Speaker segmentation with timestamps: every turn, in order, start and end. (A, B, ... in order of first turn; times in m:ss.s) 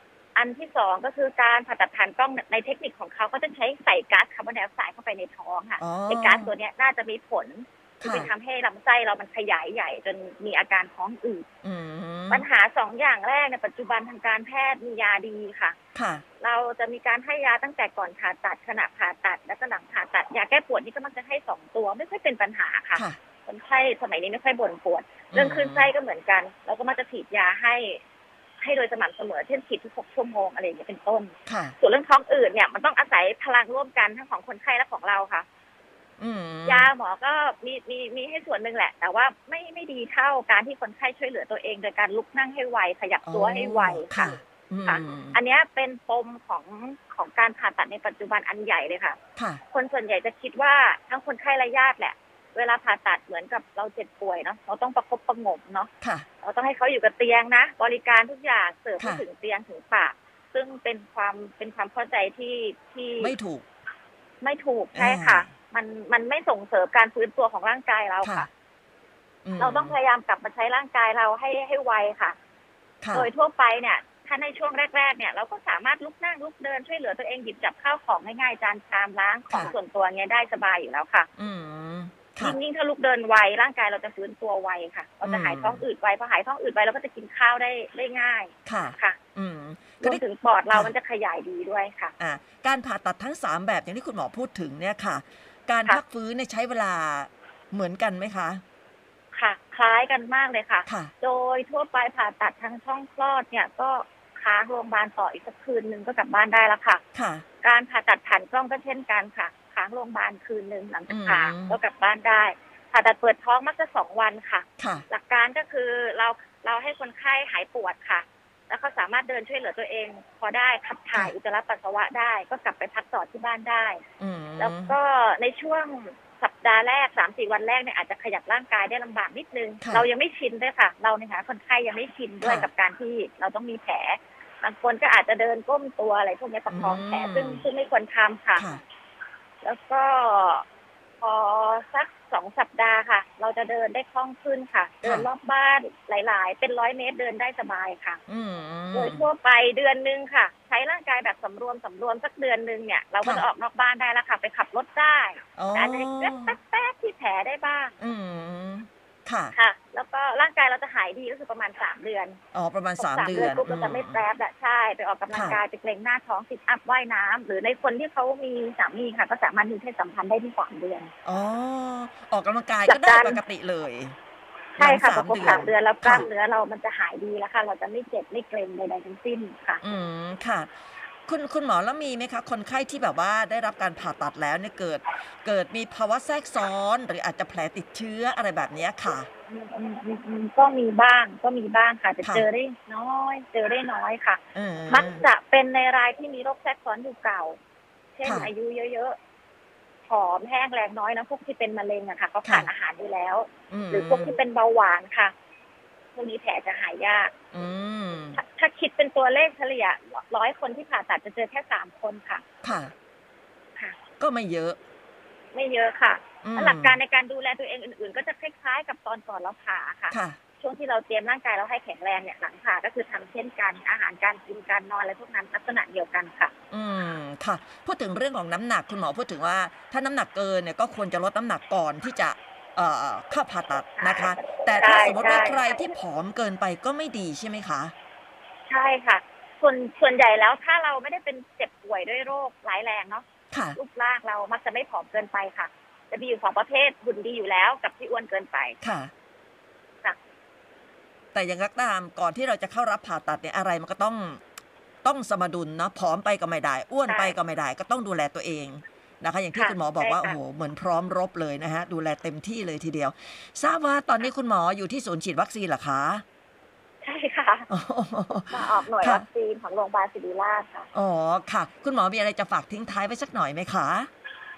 0:00.3-0:11.5 A
0:05.8-0:06.5 B
0:08.0-0:08.3 B
0:11.6-0:12.5 B
0:12.3-0:15.8 A
0:15.9-0:16.2 B
0:16.4-0:28.0 A
0:25.3-0:25.9 B
0:28.6-0:35.4 A
0:31.4-0:31.7 B
0:36.2-0:36.9 B
0:36.6-0:49.2 A
0:43.2-0:45.4 B
0:49.4-0:49.6 B
0:49.7-0:55.9 A
0:56.0-0:56.2 B
0:56.4-1:03.3 A
0:59.0-0:59.2 B
1:03.2-1:03.6 B
1:04.4-1:08.5 A
1:04.9-1:05.5 B
1:08.2-1:08.5 B
1:09.4-1:10.0 B
1:09.6-1:12.4 A
1:13.0-1:13.3 B
1:13.1-1:21.3 A
1:21.4-1:22.6 B
1:22.4-1:29.2 A
1:25.2-1:25.8 B
1:28.6-1:30.9 B
1:30.0-1:32.1 A
1:32.2-1:38.6 B
1:39.3-1:47.0 A
1:40.8-1:41.1 B
1:47.1-1:47.4 B
1:47.6-2:04.0 A
1:51.1-1:51.8 B
1:54.8-1:55.0 B
2:04.2-2:04.9 B
2:04.6-2:18.7 A
2:09.8-2:10.0 B
2:12.4-2:12.7 B
2:16.7-2:17.6 B
2:18.6-2:18.8 B
2:19.6-2:20.6 A
2:21.2-2:28.2 A
2:28.3-2:29.3 B
2:28.9-2:37.9 A
2:35.6-2:36.5 B
2:38.0-2:39.5 B
2:39.5-2:42.4 A
2:42.5-2:44.2 B
2:43.0-2:51.1 A
2:45.3-2:45.6 B
2:51.2-2:54.2 B
2:52.9-2:53.4 A
2:54.8-2:59.8 A
2:54.8-2:56.3 B
2:59.8-3:00.7 B
3:01.3-3:09.3 B
3:09.5-3:17.6 A
3:14.5-3:15.2 B
3:18.1-3:19.2 A
3:18.2-3:18.5 B
3:20.1-3:25.3 A
3:23.7-3:24.4 B
3:26.1-3:27.3 A
3:27.5-3:28.4 B
3:28.3-3:32.4 A
3:32.6-3:32.9 B
3:34.2-3:34.8 B
3:35.5-3:46.5 A
3:36.4-3:37.0 B
3:40.1-3:40.4 B
3:46.7-3:57.9 B
3:54.0-3:55.7 A
3:58.7-4:08.8 A
4:03.5-4:03.8 B
4:08.8-4:09.1 B
4:11.3-4:14.4 B
4:15.0-4:26.2 B
4:17.1-4:17.4 A
4:19.5-4:20.4 A
4:27.0-4:27.7 A
4:27.7-4:29.2 B
4:28.5-4:30.9 A
4:30.9-4:34.1 B